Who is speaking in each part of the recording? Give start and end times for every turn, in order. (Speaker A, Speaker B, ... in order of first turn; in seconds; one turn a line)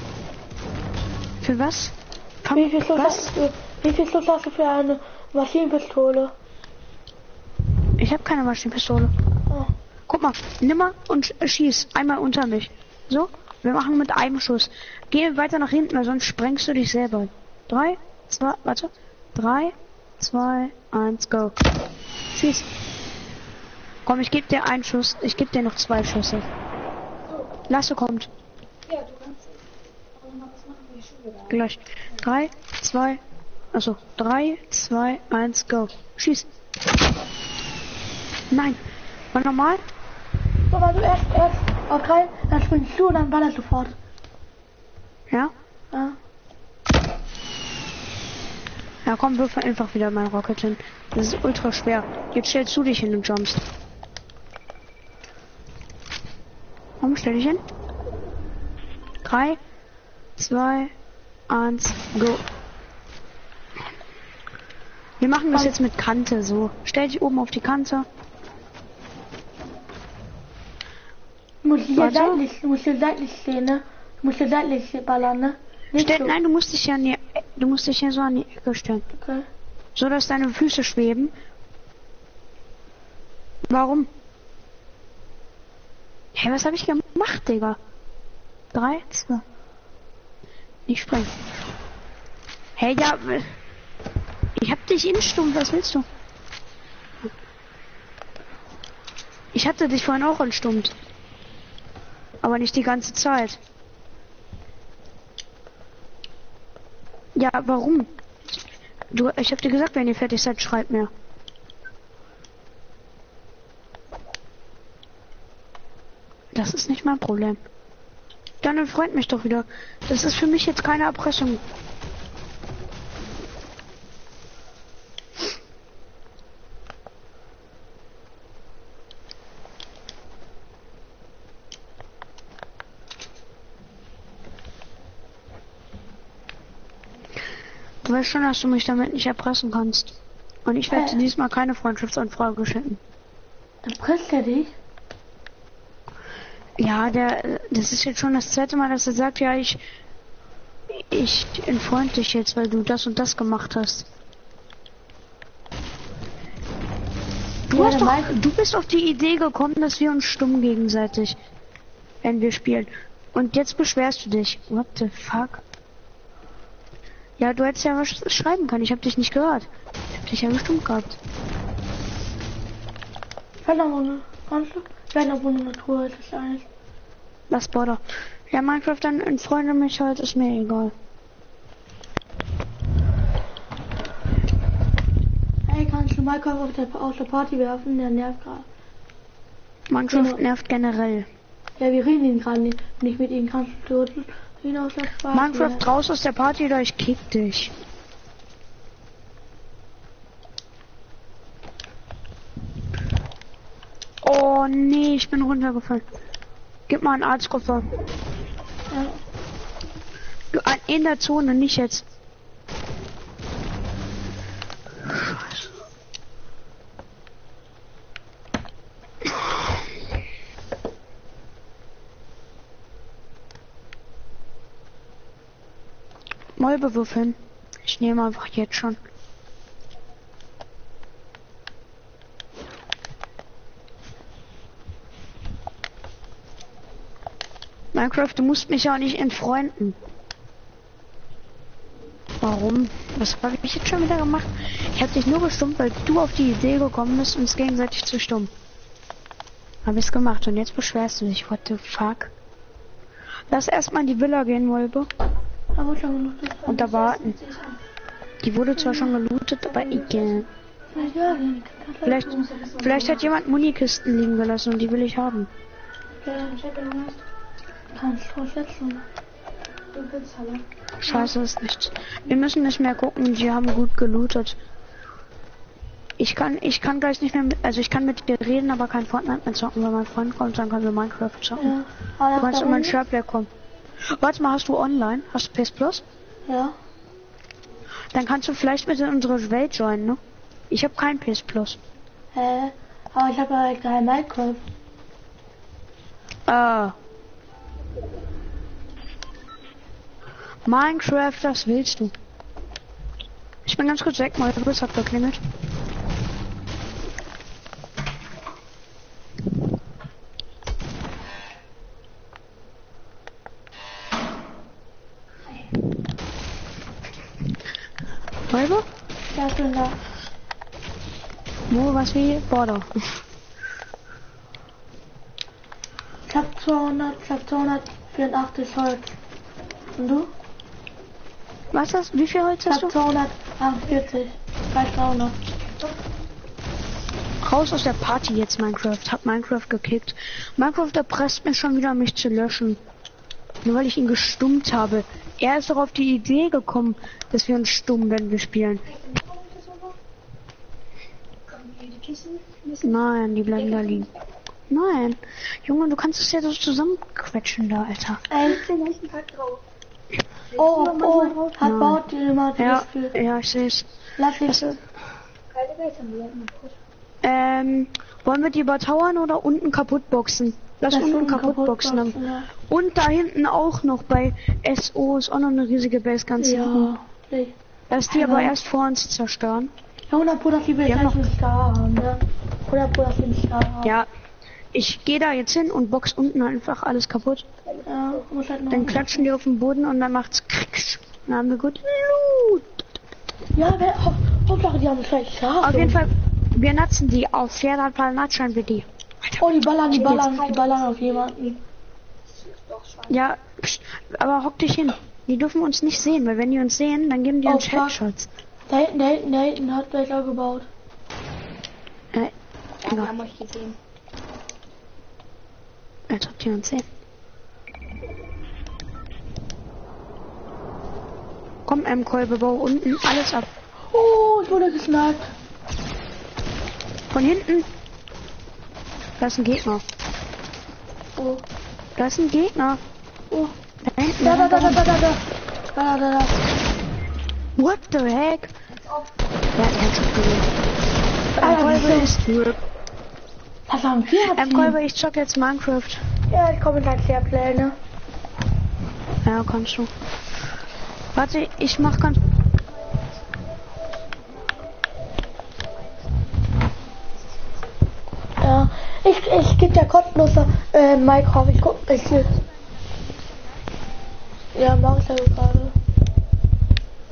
Speaker A: 1.4-3.3
Speaker B: 2.5-6.3
Speaker A: 8.0-9.1
Speaker A: 10.1-21.6
Speaker A: 22.3-22.7
Speaker A: 24.0-26.4
Speaker A: 27.7-28.3
Speaker C: 28.9-29.4
Speaker C: 30.2-31.5
Speaker A: 31.5-33.2
Speaker A: 33.7-36.5
Speaker A: 38.5-38.8
Speaker A: 39.3-39.8
Speaker B: 40.7-44.0
Speaker A: 49.0-53.6
Speaker A: 57.0-57.6
Speaker A: 59.2-59.6
Speaker A: 60.4-60.9
Speaker A: 61.5-62.4
Speaker A: 65.2-68.0
Speaker B: 71.6-76.3
Speaker A: 71.9-72.4
Speaker A: 76.0-79.0
Speaker B: 79.1-79.5
Speaker A: 80.0-81.3
Speaker A: 83.7-84.1
Speaker A: 86.3-87.8
Speaker A: 88.7-89.4
Speaker A: 90.9-91.3
Speaker A: 92.8-93.6
Speaker A: 94.6-96.0
Speaker A: 99.5-100.9
Speaker A: 102.4-103.6
Speaker A: 107.3-108.1
Speaker A: 109.1-111.1
Speaker A: 116.5-117.6
Speaker A: 118.6-121.6
Speaker A: 138.0-140.1
Speaker A: 140.7-143.0
Speaker B: 140.9-141.2
Speaker B: 143.8-144.7
Speaker A: 146.8-149.8
Speaker A: 150.9-154.1
Speaker A: 157.7-161.4
Speaker B: 157.7-158.4
Speaker A: 162.2-165.6
Speaker A: 167.4-171.2
Speaker B: 173.6-176.7
Speaker A: 177.5-180.9
Speaker B: 185.7-188.7
Speaker A: 189.9-191.3
Speaker B: 190.1-190.4
Speaker B: 191.8-195.8
Speaker A: 195.3-197.7
Speaker A: 204.2-206.0
Speaker A: 206.9-207.8
Speaker B: 208.9-209.2
Speaker A: 210.5-212.0
Speaker A: 226.6-229.0
Speaker A: 237.9-240.0
Speaker A: 242.4-248.5
Speaker A: 249.8-252.3
Speaker A: 253.5-255.1
Speaker B: 255.8-256.9
Speaker A: 256.6-257.4
Speaker C: 256.9-257.8
Speaker A: 258.4-260.5
Speaker B: 258.8-259.1
Speaker B: 260.9-262.5
Speaker A: 262.0-265.5
Speaker C: 262.5-263.2
Speaker B: 266.2-266.6
Speaker C: 266.3-267.2
Speaker B: 267.9-269.0
Speaker C: 269.9-270.6
Speaker A: 271.0-274.6
Speaker A: 276.2-281.7
Speaker B: 281.6-282.9
Speaker A: 282.4-283.5
Speaker A: 284.1-286.0
Speaker B: 286.5-286.7
Speaker A: 288.1-290.2
Speaker A: 290.7-291.8
Speaker B: 292.3-294.6
Speaker A: 296.5-296.9
Speaker A: 300.6-302.1
Speaker A: 303.6-305.4
Speaker A: 318.5-318.9
Speaker B: 319.3-320.0
Speaker A: 321.7-322.9
Speaker B: 326.3-329.2
Speaker B: 329.9-330.3
Speaker A: 331.7-332.9
Speaker B: 332.6-335.4
Speaker A: 337.4-342.8
Speaker A: 343.6-348.8
Speaker C: 348.9-349.9
Speaker C: 351.5-352.8
Speaker A: 352.8-354.1
Speaker C: 353.6-354.1
Speaker A: 354.7-358.5
Speaker B: 358.3-358.6
Speaker C: 358.5-359.6
Speaker C: 360.5-361.0
Speaker B: 360.5-363.1
Speaker A: 360.7-362.0
Speaker A: 362.6-363.9
Speaker B: 364.2-364.8
Speaker A: 364.4-364.8
Speaker C: 365.5-366.7
Speaker A: 367.2-376.9
Speaker B: 370.9-372.5
Speaker B: 376.4-377.5
Speaker A: 377.9-379.7
Speaker B: 378.1-378.6
Speaker B: 380.1-384.0
Speaker A: 380.8-381.3
Speaker A: 384.7-387.5
Speaker B: 387.9-389.2
Speaker A: 388.7-392.6
Speaker B: 393.5-396.0
Speaker A: 395.6-399.4
Speaker B: 399.4-401.6
Speaker A: 399.9-400.4
Speaker C: 400.2-400.7
Speaker C: 402.4-403.1
Speaker A: 403.1-408.3
Speaker B: 407.4-408.0
Speaker B: 408.7-410.7
Speaker C: 412.8-413.8
Speaker A: 412.9-413.2
Speaker A: 416.1-416.8
Speaker A: 421.7-423.5
Speaker B: 423.9-425.3
Speaker A: 427.1-427.7
Speaker A: 429.2-429.8
Speaker B: 431.1-431.4
Speaker A: 431.9-432.8
Speaker A: 433.8-434.9
Speaker B: 434.2-436.4
Speaker A: 437.6-438.5
Speaker A: 439.5-440.5
Speaker A: 441.3-442.6
Speaker B: 441.4-442.1
Speaker B: 443.7-444.8
Speaker A: 444.2-446.0
Speaker B: 446.3-447.8
Speaker A: 449.2-449.9
Speaker A: 451.1-452.2
Speaker B: 458.4-462.4
Speaker B: 464.5-465.8